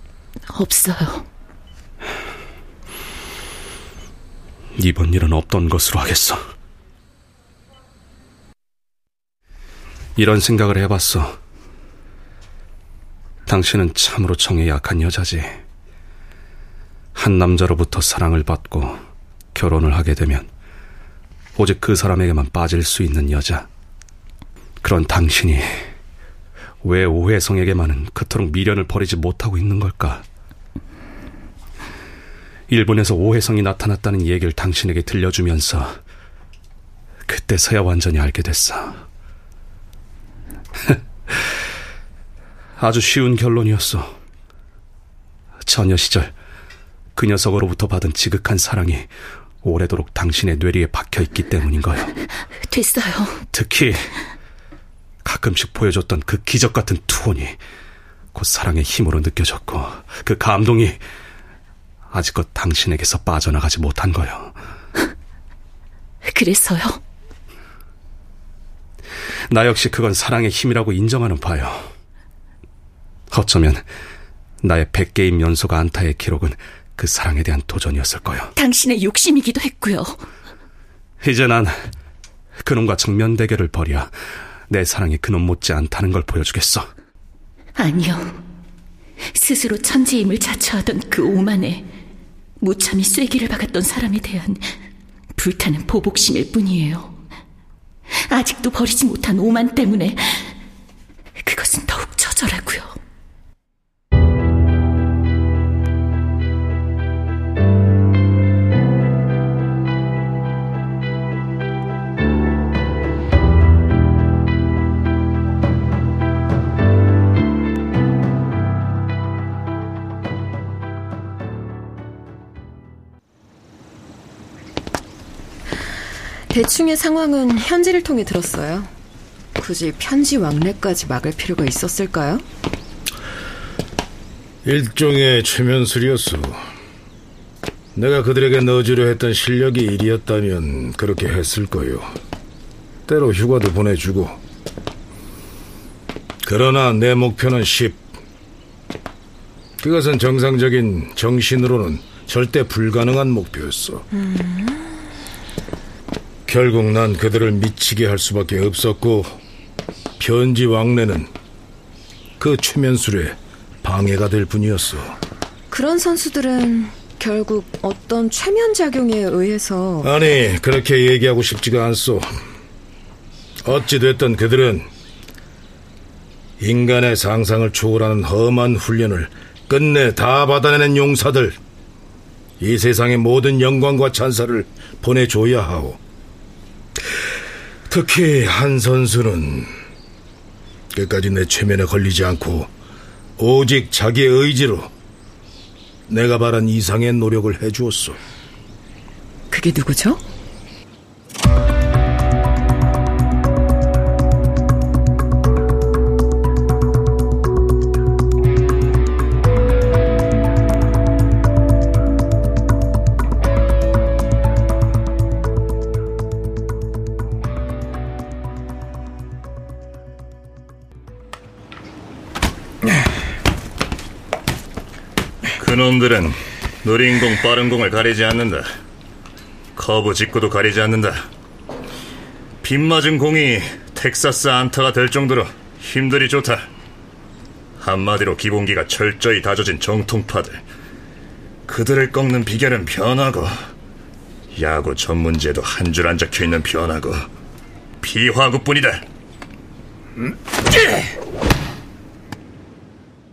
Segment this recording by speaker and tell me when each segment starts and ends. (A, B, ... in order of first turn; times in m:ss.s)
0:00.5-0:01.3 A
0:04.8-0:06.4 B
0:10.2-0:11.4 B
0:13.5-0:15.6 B
0:17.2-0:19.0 B
0:19.6-0:20.5 B
0:21.6-0:23.7 B
0:24.8-0:25.9 B
0:26.8-0:30.2 B
0:32.7-0:36.0 B
0:37.3-0:39.0 B
0:42.8-0:44.1 B
0:45.7-0:46.3 B
0:47.2-0:49.1 B
0:49.6-0:52.1 B
0:52.7-0:53.4 A
0:53.5-0:54.1 B
0:55.2-0:57.6 B
0:58.3-1:01.0 B
1:02.1-1:04.6 B
1:06.3-1:07.0 A
1:09.5-1:11.9 B
1:13.3-1:13.9 B
1:14.6-1:18.5 B
1:18.6-1:20.2 A
1:21.2-1:21.8 B
1:22.6-1:24.1 B
1:24.7-1:26.9 B
1:27.8-1:28.4 A
1:29.4-1:31.9 A
1:32.6-1:34.6 A
1:35.4-1:37.1 A
1:38.3-1:40.5 A
1:41.4-1:42.9 A
2:06.5-2:08.9 C
2:09.6-2:12.4 C
2:14.6-2:16.6 D
2:18.0-2:22.1 D
2:23.1-2:24.4 D
2:26.4-2:28.0 D
2:29.8-2:34.1 D
2:34.2-2:34.9 C
2:36.5-2:39.3 D
2:40.2-2:41.3 D
2:42.4-2:45.2 D
2:45.7-2:50.1 C
2:50.0-2:52.3 D
2:53.6-2:54.9 D
2:56.6-3:01.6 D
3:02.6-3:06.0 D
3:07.9-3:09.7 D
3:10.9-3:12.7 D
3:13.4-3:14.9 D
3:16.1-3:18.2 D
3:19.5-3:20.2 C
3:45.6-3:48.7 E
3:49.8-3:51.3 E
3:52.6-3:56.7 E
3:57.8-4:00.6 E
4:01.7-4:03.6 E
4:04.6-4:07.3 E
4:08.0-4:09.0 E